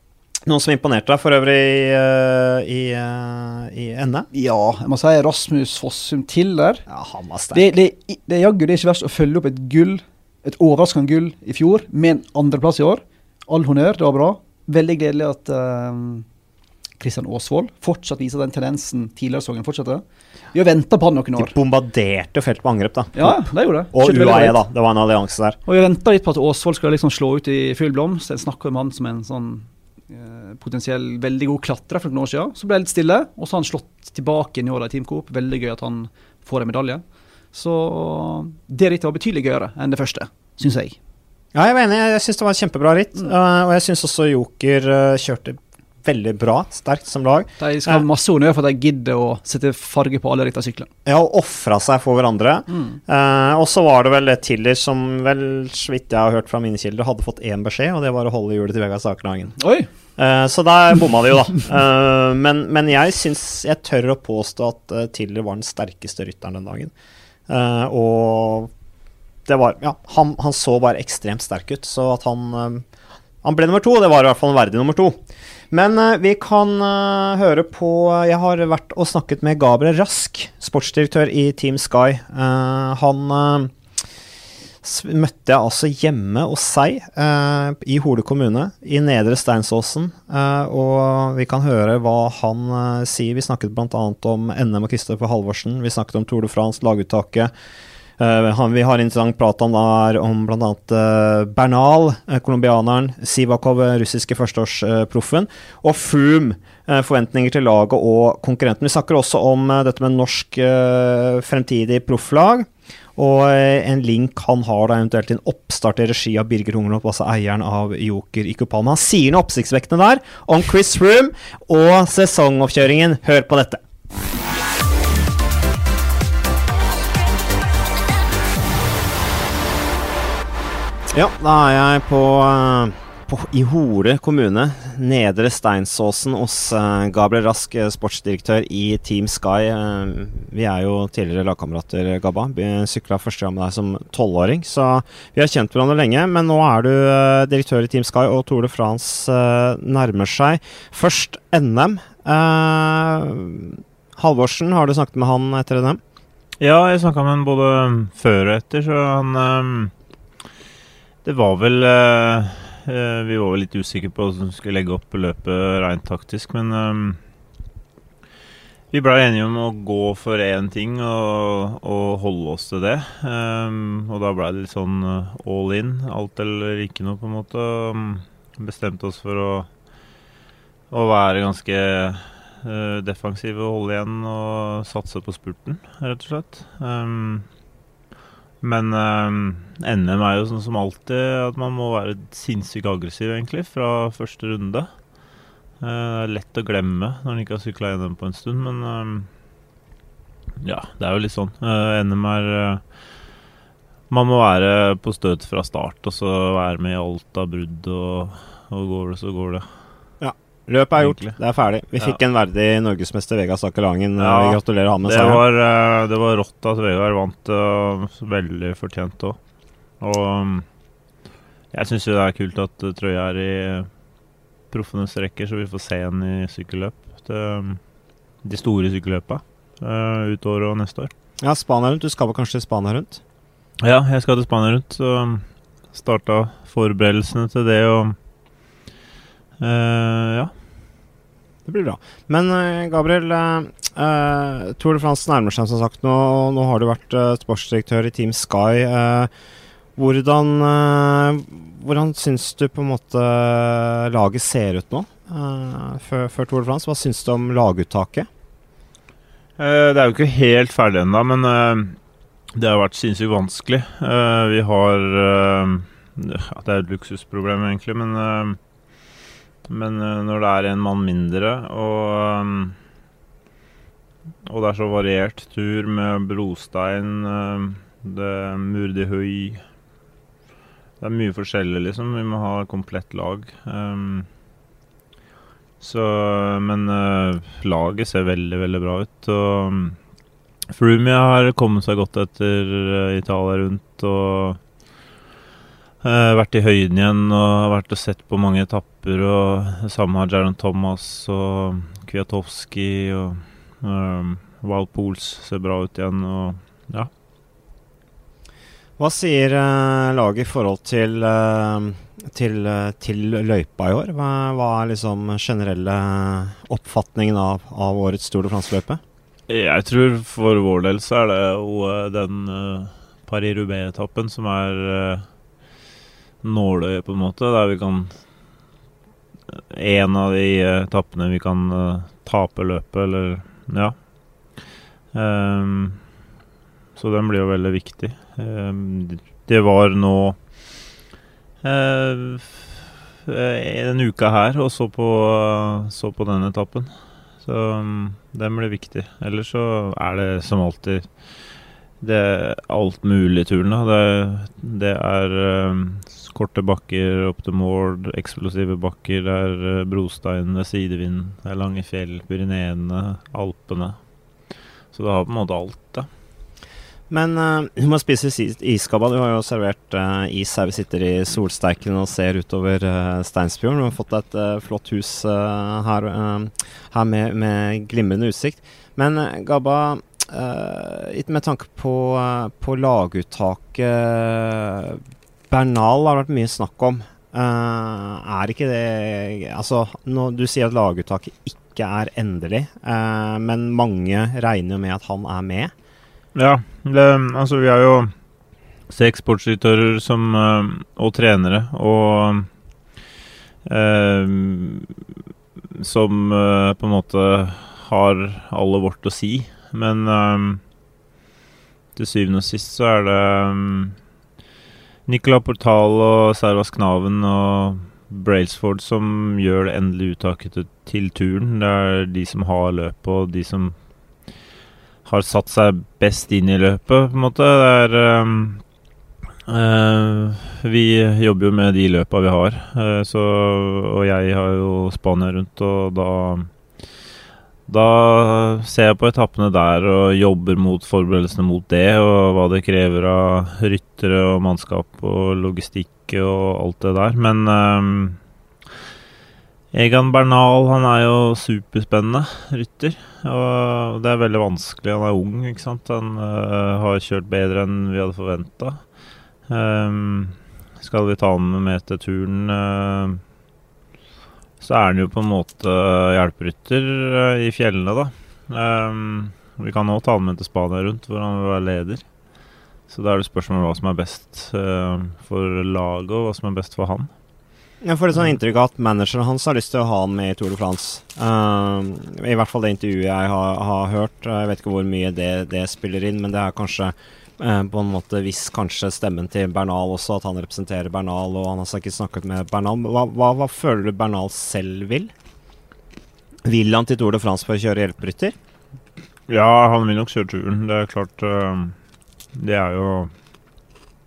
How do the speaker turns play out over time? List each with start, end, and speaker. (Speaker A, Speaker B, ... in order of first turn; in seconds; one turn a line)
Speaker A: 0.5-4.3
Speaker B: 4.3-6.8
Speaker A: 6.9-7.8
Speaker B: 7.5-16.2
Speaker B: 17.0-21.5
Speaker A: 21.4-25.6
Speaker B: 23.1-24.6
Speaker B: 25.6-41.0
Speaker A: 41.5-48.0
Speaker B: 47.6-50.9
Speaker A: 51.0-59.6
Speaker B: 59.6-59.9
Speaker A: 60.2-66.9
Speaker A: 67.5-68.7
Speaker A: 69.5-72.8
Speaker A: 73.4-75.2
Speaker A: 75.7-83.7
Speaker A: 84.8-97.5
Speaker A: 98.2-123.8
Speaker A: 131.1-156.0
Speaker C: 156.6-159.9
Speaker C: 161.2-167.2
Speaker C: 168.9-179.7
Speaker C: 180.9-187.5
Speaker C: 188.6-194.9
Speaker C: 195.8-199.3
Speaker C: 200.6-202.8
Speaker C: 204.1-209.7
Speaker A: 210.2-215.4
Speaker C: 211.0-211.3
Speaker C: 214.2-219.4
Speaker C: 220.0-220.7
Speaker C: 221.7-223.9
Speaker C: 224.7-227.8
Speaker C: 228.4-231.1
Speaker A: 231.4-233.2
Speaker C: 233.8-238.2
Speaker C: 239.6-240.5
Speaker A: 241.7-249.3
Speaker A: 250.0-258.3
Speaker C: 259.6-262.0
Speaker C: 262.5-268.6
Speaker C: 269.6-272.8
Speaker C: 274.4-279.6
Speaker C: 281.0-284.3
Speaker C: 285.8-290.0
Speaker C: 290.7-294.6
Speaker C: 296.0-307.1
Speaker A: 309.0-319.0
Speaker C: 319.5-325.2
Speaker C: 326.4-328.1
Speaker C: 329.7-333.9
Speaker C: 335.1-336.0
Speaker C: 336.9-340.4
Speaker C: 341.6-346.9
Speaker C: 347.4-351.1
Speaker C: 352.0-364.0
Speaker C: 364.9-366.1
Speaker A: 367.1-395.7
Speaker C: 396.3-398.1
Speaker C: 398.9-402.5
Speaker C: 403.6-404.9
Speaker C: 405.7-410.6
Speaker C: 411.9-413.9
Speaker C: 415.1-423.7
Speaker C: 425.0-428.6
Speaker C: 429.5-436.5
Speaker C: 437.7-448.2
Speaker C: 449.7-458.8
Speaker C: 459.5-463.2
Speaker C: 464.6-472.0
Speaker C: 472.9-477.1
Speaker A: 477.8-495.1
Speaker A: 496.4-498.3
Speaker C: 499.3-501.8
Speaker C: 502.3-503.1